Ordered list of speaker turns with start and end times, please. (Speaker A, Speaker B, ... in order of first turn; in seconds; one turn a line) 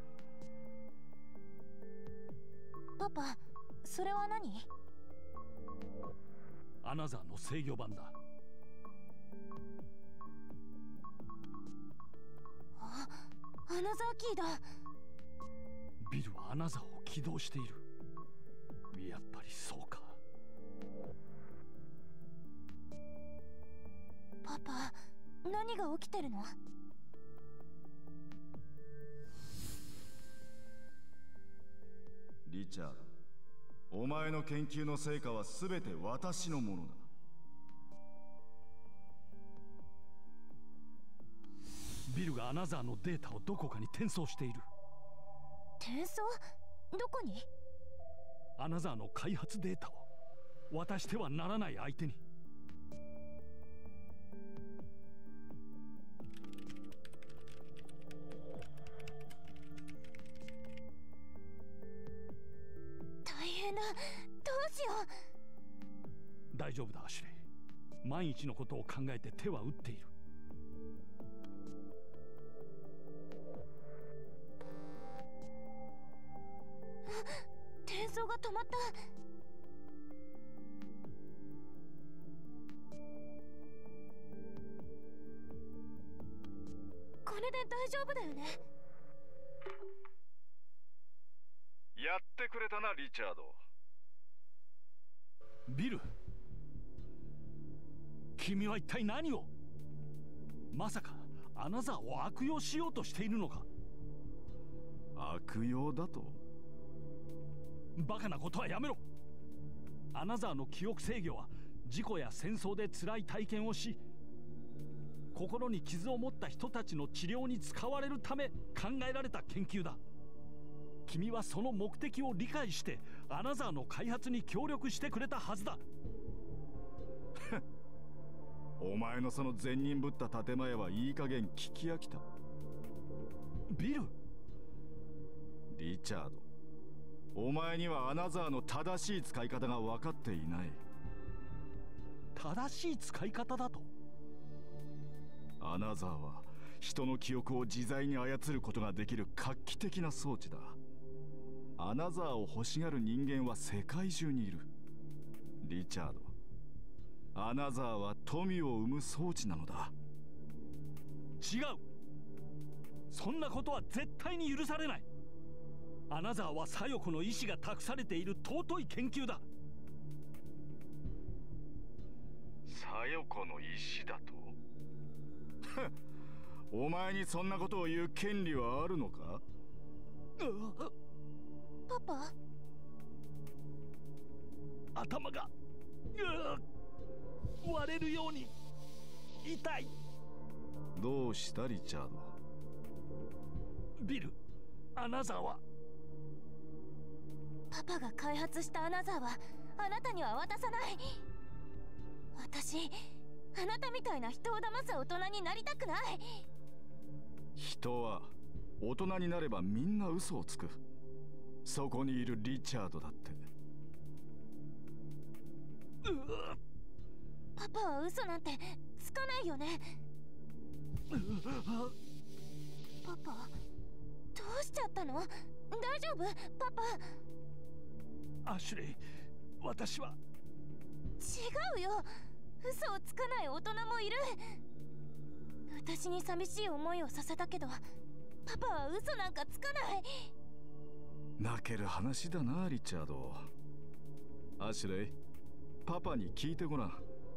Speaker A: 3.0-4.7
Speaker B: 6.8-8.1
Speaker A: 12.8-14.7
Speaker B: 16.0-17.8
Speaker B: 18.9-20.2
Speaker A: 24.4-26.6
Speaker C: 32.4-33.1
Speaker C: 33.9-37.1
Speaker B: 42.1-44.6
Speaker A: 45.8-46.4
Speaker A: 46.9-47.5
Speaker B: 48.6-50.1
Speaker B: 50.7-52.2
Speaker A: 63.2-65.1
Speaker B: 66.5-67.4
Speaker B: 68.0-70.1
Speaker A: 77.0-79.0
Speaker A: 87.2-88.6
Speaker C: 92.0-93.6
Speaker B: 95.7-96.0
Speaker B: 98.4-99.5
Speaker B: 100.7-103.7
Speaker C: 105.1-106.4
Speaker B: 108.0-109.0
Speaker B: 110.1-114.0
Speaker B: 115.3-120.0
Speaker B: 121.1-125.8
Speaker C: 128.8-132.3
Speaker B: 133.7-134.1
Speaker C: 135.7-136.4
Speaker C: 137.3-140.8
Speaker B: 142.3-143.9
Speaker C: 145.6-150.8
Speaker C: 151.8-154.7
Speaker C: 155.6-156.3
Speaker C: 157.3-159.9
Speaker B: 161.4-161.8
Speaker B: 163.1-165.0
Speaker B: 166.1-169.4
Speaker C: 172.7-174.6
Speaker C: 175.7-175.9
Speaker C: 176.7-179.4
Speaker B: 180.4-180.9
Speaker A: 181.9-182.3
Speaker B: 184.9-185.5
Speaker B: 186.1-186.6
Speaker B: 187.6-188.5
Speaker B: 189.4-189.9
Speaker C: 190.9-192.4
Speaker B: 194.0-194.3
Speaker B: 194.9-195.6
Speaker A: 197.7-201.2
Speaker A: 202.3-206.4
Speaker C: 207.6-210.8
Speaker C: 211.6-213.4
Speaker B: 216.0-216.6
Speaker A: 217.6-220.0
Speaker B: 221.1-221.9
Speaker A: 223.0-223.5
Speaker A: 224.3-227.2
Speaker B: 228.4-229.0
Speaker B: 229.6-230.2
Speaker A: 231.2-234.6
Speaker A: 235.7-237.8
Speaker A: 238.4-240.3
Speaker C: 241.4-243.5
Speaker C: 244.6-245.2
Speaker C: 245.8-247.0